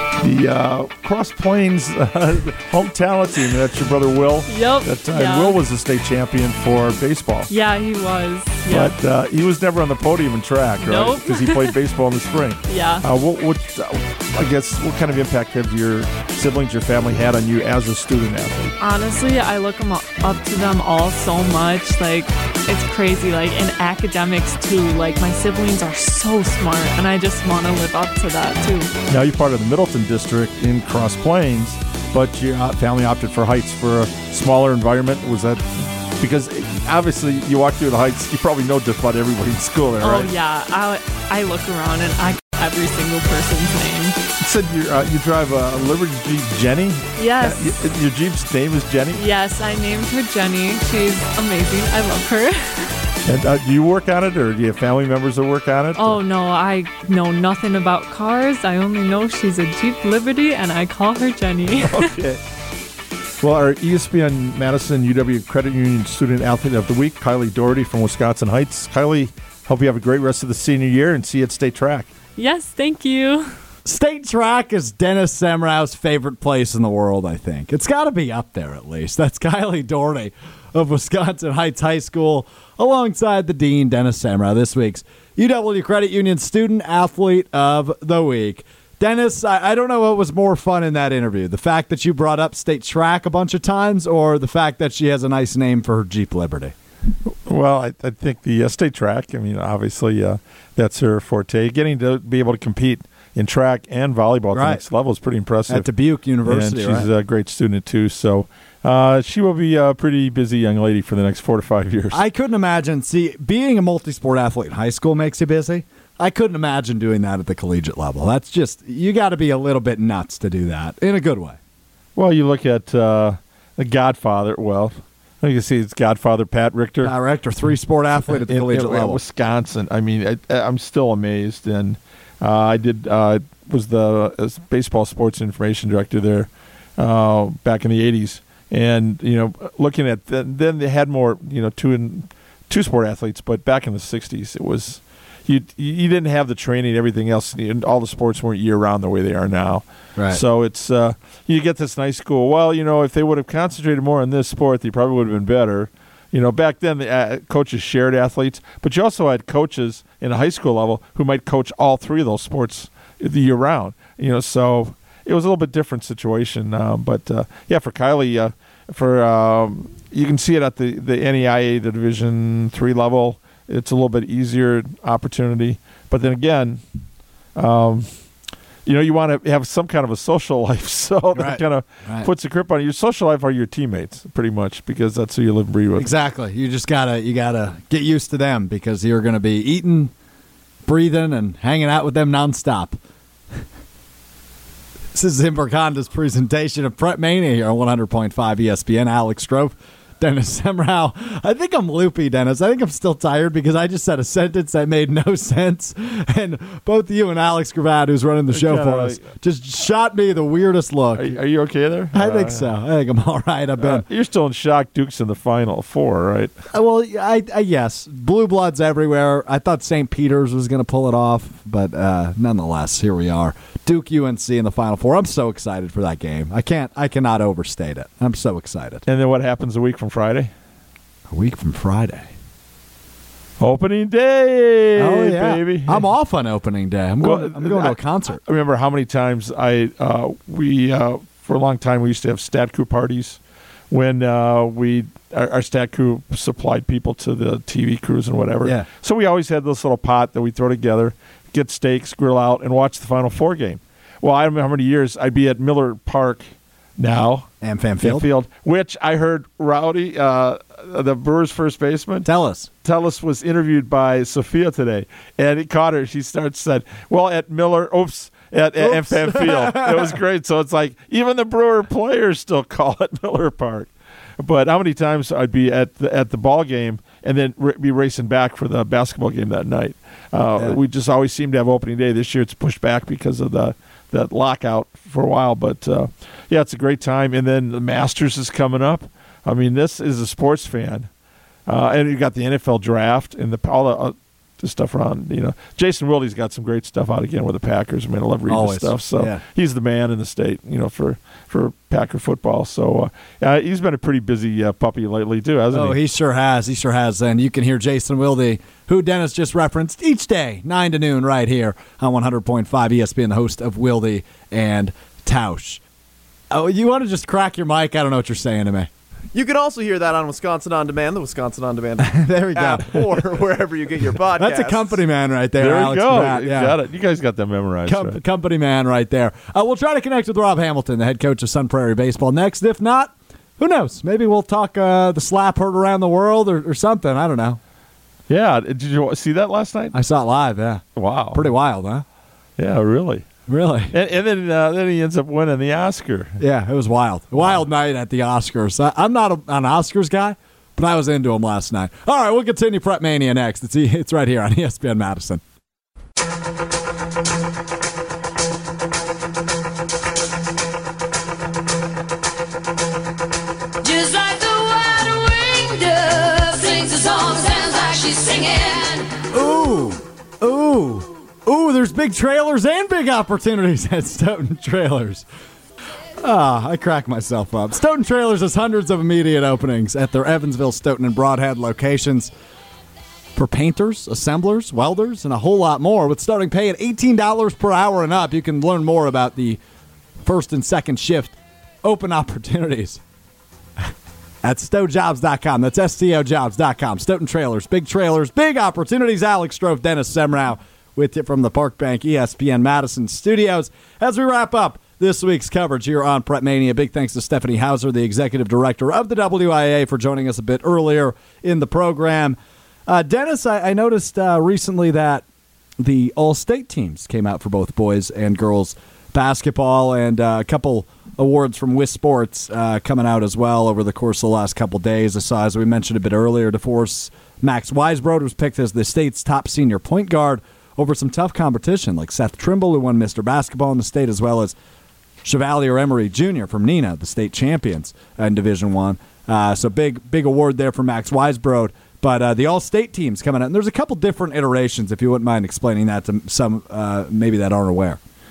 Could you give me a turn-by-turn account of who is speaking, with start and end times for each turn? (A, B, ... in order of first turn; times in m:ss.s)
0:00.2-0:07.5 A
0:04.5-0:05.6 B
0:07.5-0:08.9 B
0:08.7-0:18.7 A
0:10.8-0:11.8 B
0:12.7-0:13.0 B
0:18.8-0:28.9 B
0:29.1-0:40.3 A
0:40.0-0:44.2 B
0:44.4-0:49.2 A
0:47.2-0:47.9 B
0:49.1-0:53.0 B
0:53.2-0:56.2 A
0:56.0-1:02.1 B
1:01.8-1:02.4 A
1:03.4-1:12.1 A
1:12.4-1:13.5 B
1:13.8-1:36.7 C
1:37.4-1:45.9 A
1:44.5-1:44.8 C
1:45.7-1:47.1 C
1:46.4-1:52.2 A
1:52.1-2:01.6 C
2:02.2-2:07.1 A
2:07.0-2:09.2 C
2:08.4-2:56.8 A
2:57.6-2:58.1 A
2:58.8-3:06.1 A
3:01.3-3:02.3 C
3:06.0-3:10.1 C
3:10.8-3:13.0 C
3:15.1-3:31.4 C
3:28.5-3:29.2 A
3:31.1-3:32.7 A
3:32.1-3:34.0 C
3:33.8-3:36.5 A
3:36.7-3:49.0 C
3:49.1-3:50.5 A
3:51.3-3:52.3 C
3:53.6-3:56.0 A
3:55.0-3:58.4 C
3:57.2-4:03.4 A
4:03.9-4:17.5 A
4:17.6-4:18.3 C
4:18.0-4:22.3 A
4:22.2-4:22.7 C
4:22.8-4:51.1 A
4:28.8-4:30.2 C
4:51.7-5:06.0 A
4:58.5-4:59.4 C
5:05.7-5:15.8 C
5:16.5-5:18.9 C
5:19.3-5:25.0 D
5:22.0-5:23.2 C
5:24.3-5:26.8 C
5:25.6-5:28.2 A
5:27.8-5:37.6 C
5:38.3-5:39.9 A
5:39.9-5:42.0 C
5:41.0-5:41.5 A
5:42.6-5:43.2 A
5:43.5-5:43.9 C
5:43.9-5:46.4 A
5:46.4-5:55.4 C
6:03.8-6:09.3 E
6:09.3-6:15.2 C
6:16.2-6:22.3 C
6:23.3-6:29.6 C
6:30.2-6:33.0 C
6:34.4-6:55.2 C
6:55.8-7:14.5 C
7:15.2-7:28.0 C